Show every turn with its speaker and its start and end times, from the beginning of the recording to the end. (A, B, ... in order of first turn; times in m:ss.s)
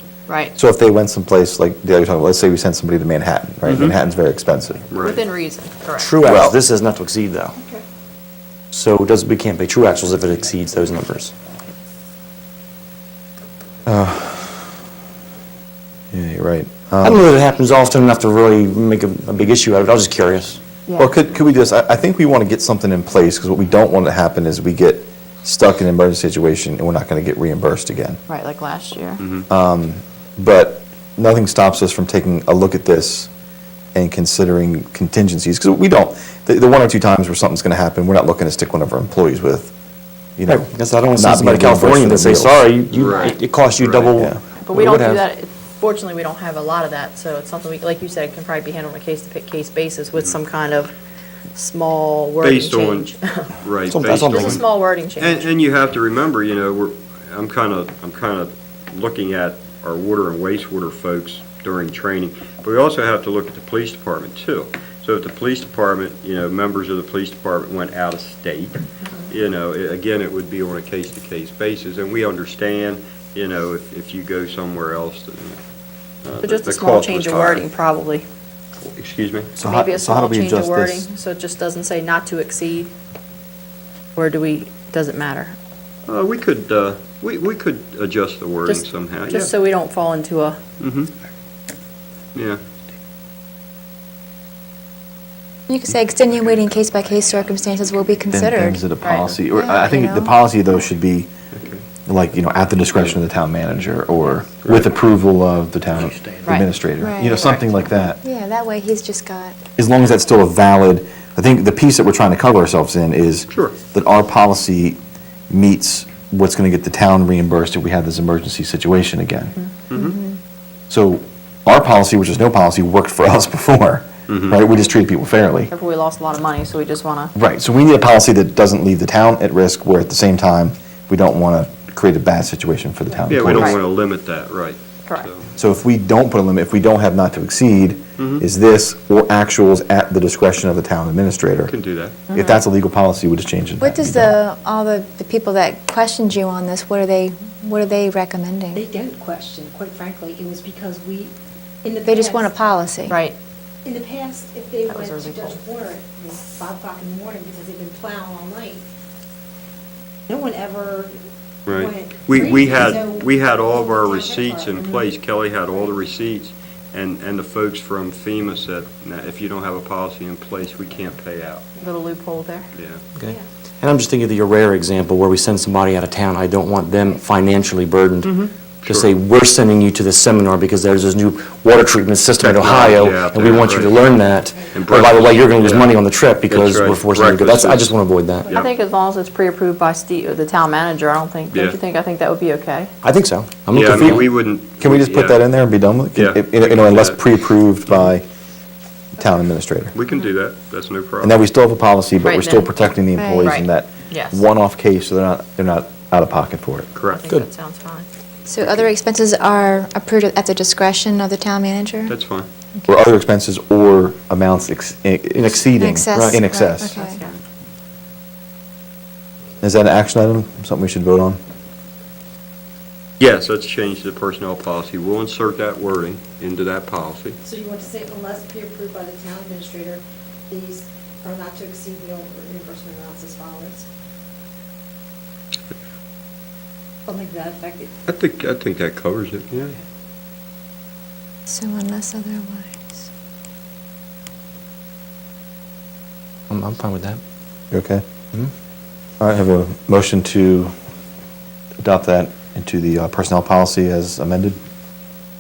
0:00.3-0:00.5 A
0:00.6-0:04.9 B
0:03.7-0:04.0 C
0:04.9-0:05.2 C
0:05.0-0:06.1 A
0:06.0-0:07.6 D
0:06.2-0:06.6 B
0:07.6-0:07.8 E
0:08.7-0:11.3 D
0:13.9-0:14.6 B
0:16.1-0:17.2 B
0:17.0-0:20.6 D
0:20.9-0:21.2 A
0:21.0-0:28.2 B
0:28.3-0:29.2 A
0:29.5-0:33.3 B
0:34.0-0:39.7 B
0:40.4-0:42.6 B
0:40.5-0:45.2 D
0:42.9-0:44.2 C
0:43.0-0:43.4 A
0:44.6-0:50.9 A
0:51.5-0:53.5 A
0:52.4-0:53.1 C
0:53.6-0:54.6 C
0:53.9-0:54.6 D
0:54.3-0:55.5 A
0:55.2-1:15.6 C
1:16.2-1:17.6 C
1:16.4-1:18.3 A
1:18.8-1:19.5 C
1:19.6-1:21.1 B
1:19.6-1:22.9 A
1:24.2-1:25.6 A
1:26.1-1:29.5 C
1:28.7-1:30.6 A
1:30.8-1:31.1 C
1:35.7-1:38.8 F
1:38.3-1:41.3 B
1:39.0-1:39.4 A
1:39.5-1:40.4 F
1:41.5-1:41.8 C
1:42.1-1:48.2 B
1:44.6-1:44.9 C
1:47.0-1:47.7 F
1:48.2-1:49.6 F
1:49.8-1:55.0 B
1:53.5-1:53.8 C
1:55.5-1:59.6 B
1:59.9-2:00.2 C
1:59.9-2:00.3 F
2:00.9-2:05.7 B
2:04.3-2:04.6 C
2:05.7-2:07.3 A
2:07.4-2:13.8 B
2:13.3-2:15.5 C
2:13.5-2:13.8 A
2:15.6-2:21.8 B
2:18.2-2:18.4 C
2:21.6-2:22.2 C
2:22.3-2:24.4 B
2:22.3-2:22.6 A
2:23.8-2:28.8 F
2:28.8-2:32.5 E
2:32.0-2:33.2 F
2:33.1-2:33.4 A
2:33.8-2:38.8 E
2:34.9-2:35.6 A
2:40.3-2:41.2 E
2:41.7-2:51.7 C
2:41.7-2:45.1 E
2:51.8-2:52.7 A
2:52.7-2:53.0 C
2:53.2-3:08.5 D
2:58.2-2:59.1 C
3:02.4-3:04.0 C
3:04.7-3:08.7 C
3:08.5-3:12.9 A
3:11.5-3:11.8 C
3:13.0-3:14.3 D
3:13.7-3:15.5 C
3:14.8-3:18.3 B
3:16.1-3:17.3 C
3:19.2-3:19.9 B
3:19.9-3:21.4 C
3:21.2-3:26.9 B
3:22.2-3:22.7 A
3:23.2-3:23.5 F
3:23.4-3:24.4 A
3:26.9-3:27.2 C
3:27.1-3:28.1 A
3:28.5-3:32.2 F
3:32.1-3:32.5 C
3:32.9-3:37.0 B
3:35.5-3:37.2 F
3:36.1-3:36.4 D
3:36.9-3:37.4 A
3:39.6-3:41.4 B
3:43.2-3:47.4 C
3:47.4-3:53.9 E
3:57.1-3:57.9 E
3:58.1-3:59.8 C
4:01.5-4:03.1 F
4:06.5-4:07.2 D
4:07.7-4:08.0 B
4:09.2-4:10.7 B
4:11.8-4:14.6 B